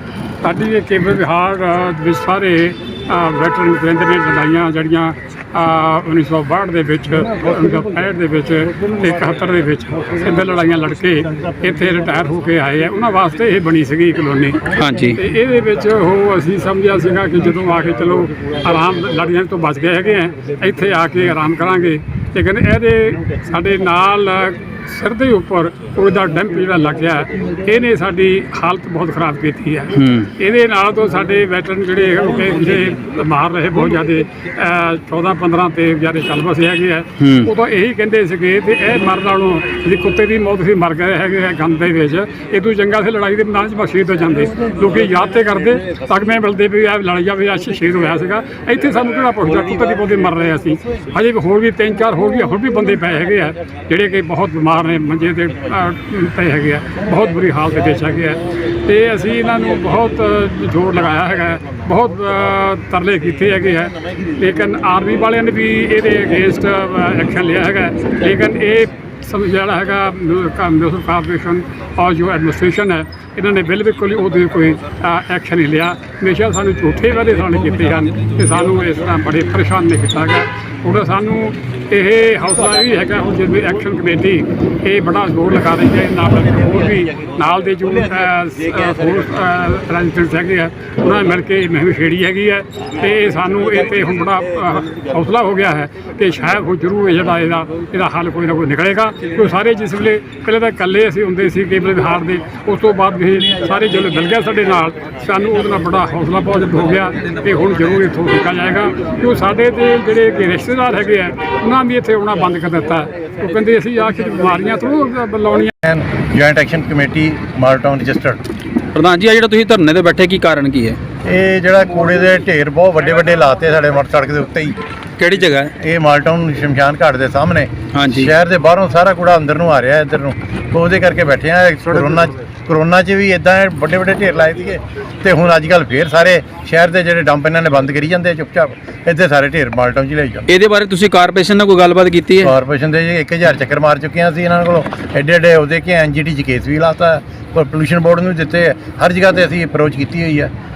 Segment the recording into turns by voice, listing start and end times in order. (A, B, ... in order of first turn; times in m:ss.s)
0:00.4-1:55.7 A
0:14.7-0:15.2 B
0:29.9-0:30.3 B
0:37.2-0:37.5 B
1:55.8-1:58.4 C
1:58.9-2:01.0 B
2:01.2-2:04.8 C
2:05.2-2:05.7 B
2:05.8-2:20.4 C
2:07.9-2:08.3 B
2:20.5-2:22.5 B
2:22.4-2:30.5 C